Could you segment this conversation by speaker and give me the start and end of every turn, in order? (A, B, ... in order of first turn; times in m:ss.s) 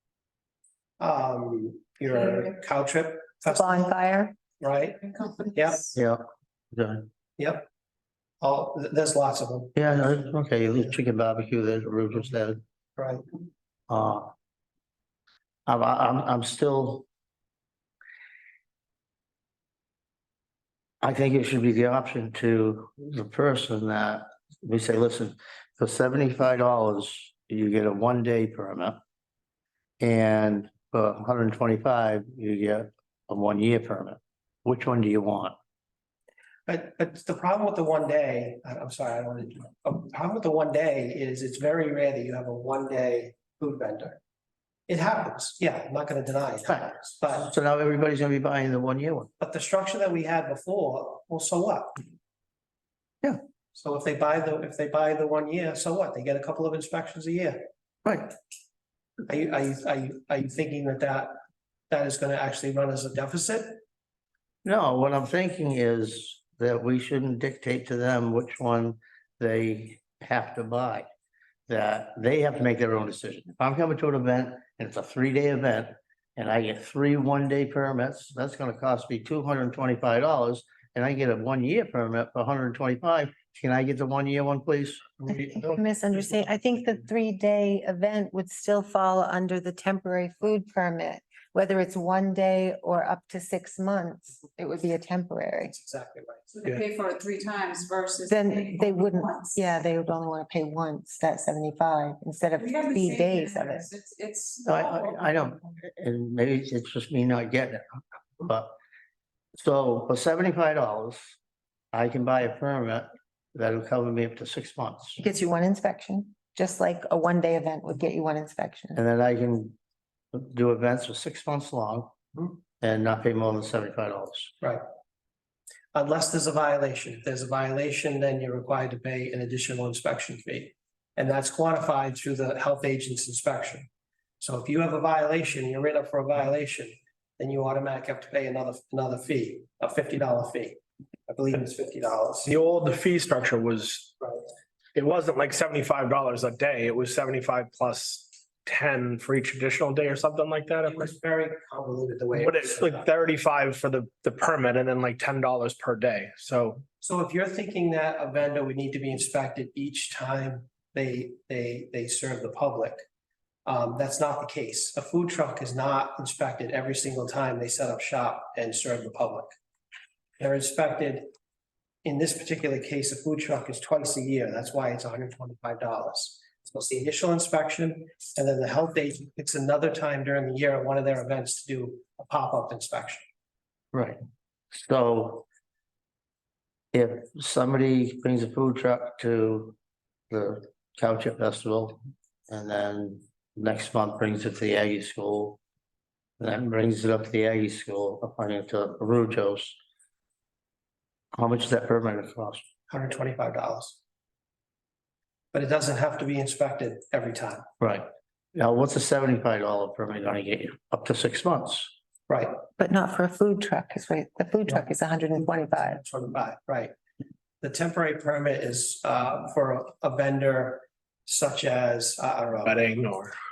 0:01.0-0:03.9 A
0:03.6-0:04.4 B
0:04.6-0:05.9 A
0:05.9-0:07.1 C
0:07.4-0:07.7 A
0:08.4-0:09.8 A
0:09.8-0:12.6 C
0:13.0-0:13.2 A
0:13.9-0:14.3 C
0:15.7-0:17.1 C
0:21.0-0:29.0 C
0:30.0-0:35.6 C
0:36.7-0:44.2 A
0:44.9-0:47.5 A
0:46.7-0:49.3 C
0:49.4-0:52.0 A
0:53.8-0:57.6 A
0:58.0-0:58.3 C
0:59.3-1:01.4 A
1:01.9-1:03.8 A
1:04.6-1:11.1 C
1:11.7-1:25.1 C
1:25.5-1:25.8 D
1:25.8-1:35.7 B
1:35.7-1:36.7 A
1:36.6-1:39.7 E
1:38.3-1:43.8 B
1:42.6-1:45.0 E
1:44.6-1:47.8 C
1:48.4-1:48.7 C
1:49.6-1:51.4 C
1:51.9-1:55.2 C
1:55.2-1:59.0 B
1:59.0-1:59.8 C
2:00.3-2:02.1 C
2:02.8-2:04.5 C
2:05.9-2:13.9 A
2:14.4-2:22.5 A
2:22.4-2:24.2 D
2:25.0-2:31.1 D
2:30.9-2:33.1 A
2:32.3-2:36.8 D
2:37.0-2:43.0 A
2:43.7-2:49.5 A
2:50.4-2:51.3 A
2:52.0-3:03.2 A
3:04.7-3:05.5 C
3:06.9-3:09.8 C
3:10.3-3:15.6 C
3:16.4-3:19.8 C
3:21.4-3:22.6 C
3:22.9-3:24.0 A
3:25.5-3:27.6 A
3:27.8-3:31.9 C
3:32.3-3:32.6 A
3:32.8-3:36.0 B
3:35.4-3:36.9 A
3:37.6-3:42.8 A
3:42.6-3:43.4 D